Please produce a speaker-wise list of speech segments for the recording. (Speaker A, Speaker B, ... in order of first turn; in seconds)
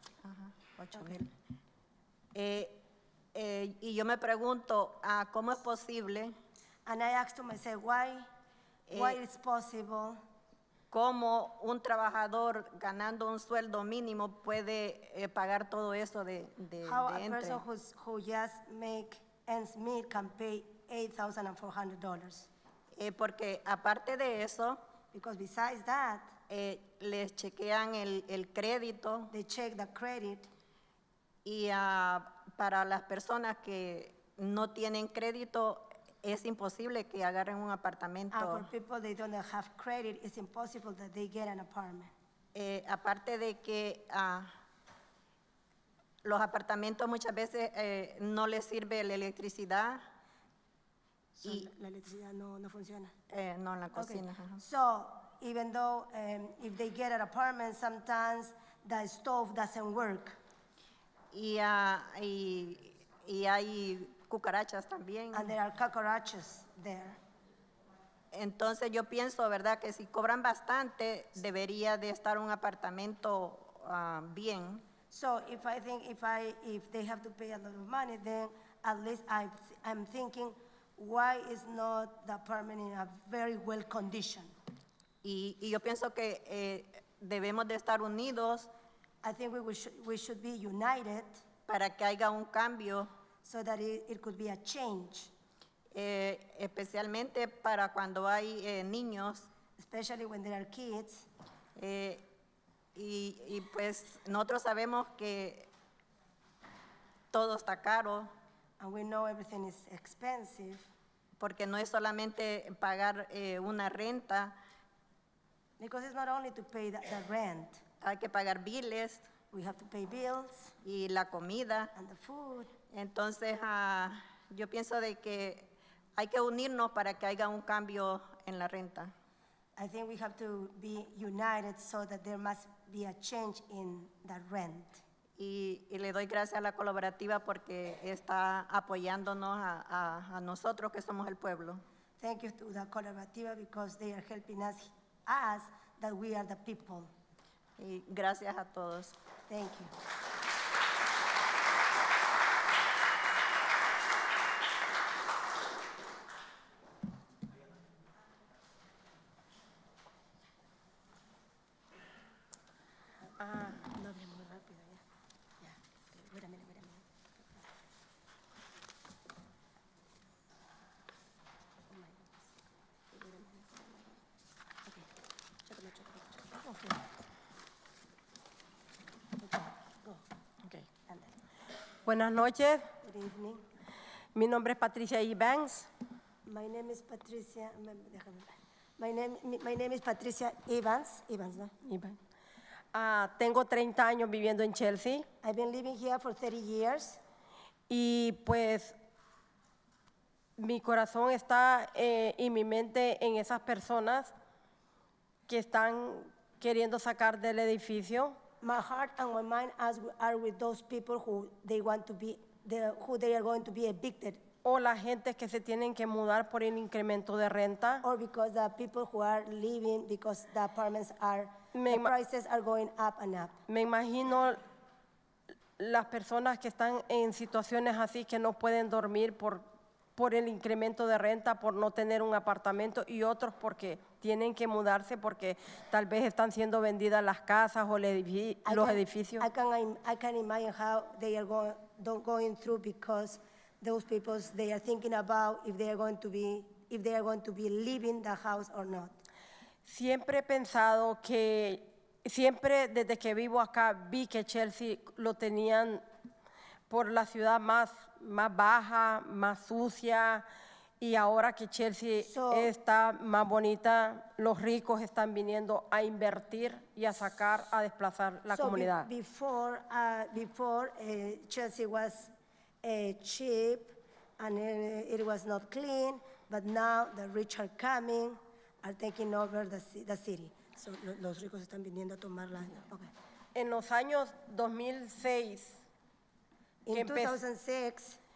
Speaker A: 0.2-1.3, 2.3-2.8, 3.3-6.3, 8.9-9.2, 10.9-17.6, 22.9-24.8, 26.5-29.3, 31.4-38.7, 42.5-44.5, 46.2-50.0, 53.3-54.6, 61.3-65.5, 68.3-74.8, 85.2-88.7, 91.7-93.1, 95.9-99.5, 101.8-102.2, 102.9-105.7, 107.3-108.3, 111.4-114.6, 118.0-119.3, 120.8-121.9, 122.9-129.1, 135.4-141.8, 147.8-149.2
Speaker B: 6.8-8.3, 8.9-10.2, 16.8-22.5, 25.1-26.3, 29.3-30.5, 38.3-42.1, 51.4-53.1, 54.0-60.4, 65.3-67.2, 75.1-84.5, 89.2-91.4, 93.4-95.3, 99.8-101.2, 108.8-110.8, 115.8-117.8, 119.5-120.7, 121.9-122.7, 129.8-135.0, 142.2-147.1, 149.5-149.9, 163.2-165.0, 165.6-167.6, 171.9-172.5, 173.1-174.2, 175.6-176.9, 179.4-180.2, 181.1-181.3, 183.0-183.6, 186.4-191.7, 195.4-197.2, 208.6-214.4, 218.0-223.6, 238.7-249.2, 262.2-262.7, 268.5-283.1, 286.9-288.2
Speaker C: 182.1-182.8, 184.3-185.9, 191.8-192.2, 192.9-195.3, 197.9-198.9, 200.6-204.3, 205.5-208.4, 214.6-218.0, 221.7-222.1, 223.7-224.6, 225.8-229.6, 230.2-239.4, 249.8-256.0, 256.9-260.4, 261.0-269.1, 283.5-285.8, 286.9-287.4